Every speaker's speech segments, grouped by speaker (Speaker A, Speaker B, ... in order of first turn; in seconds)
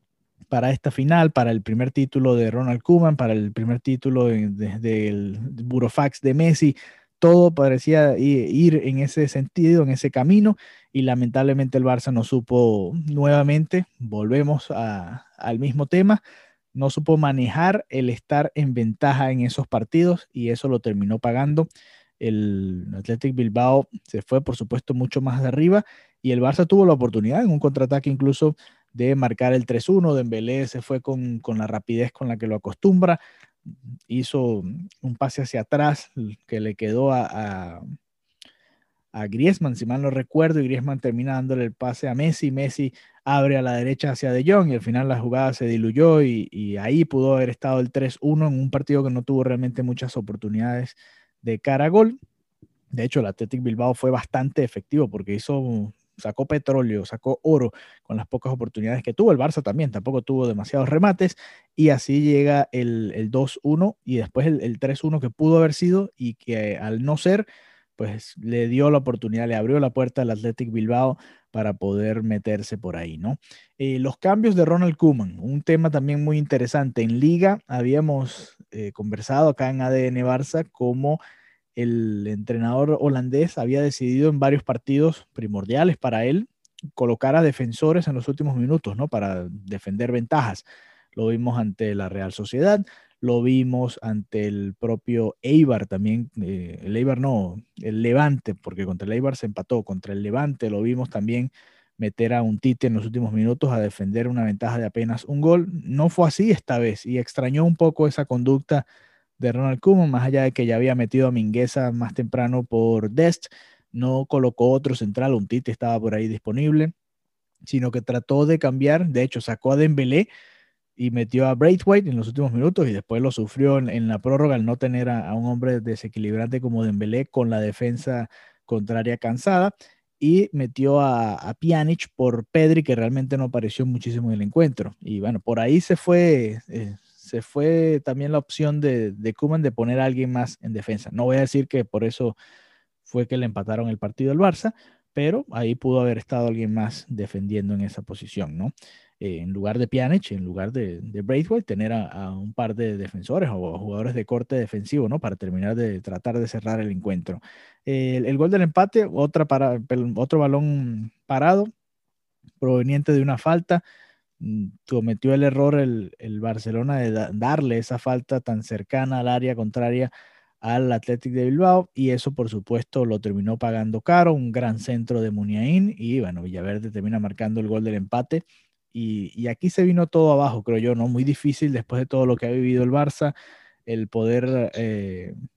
Speaker A: 0.5-16.2, 16.7-21.7, 22.2-33.2, 34.1-37.8, 39.1-52.2, 52.9-81.2, 81.8-108.9, 109.4-116.9, 117.6-120.3, 121.0-142.4, 143.1-161.7, 162.6-163.8, 164.4-170.1, 170.6-183.3, 183.9-185.3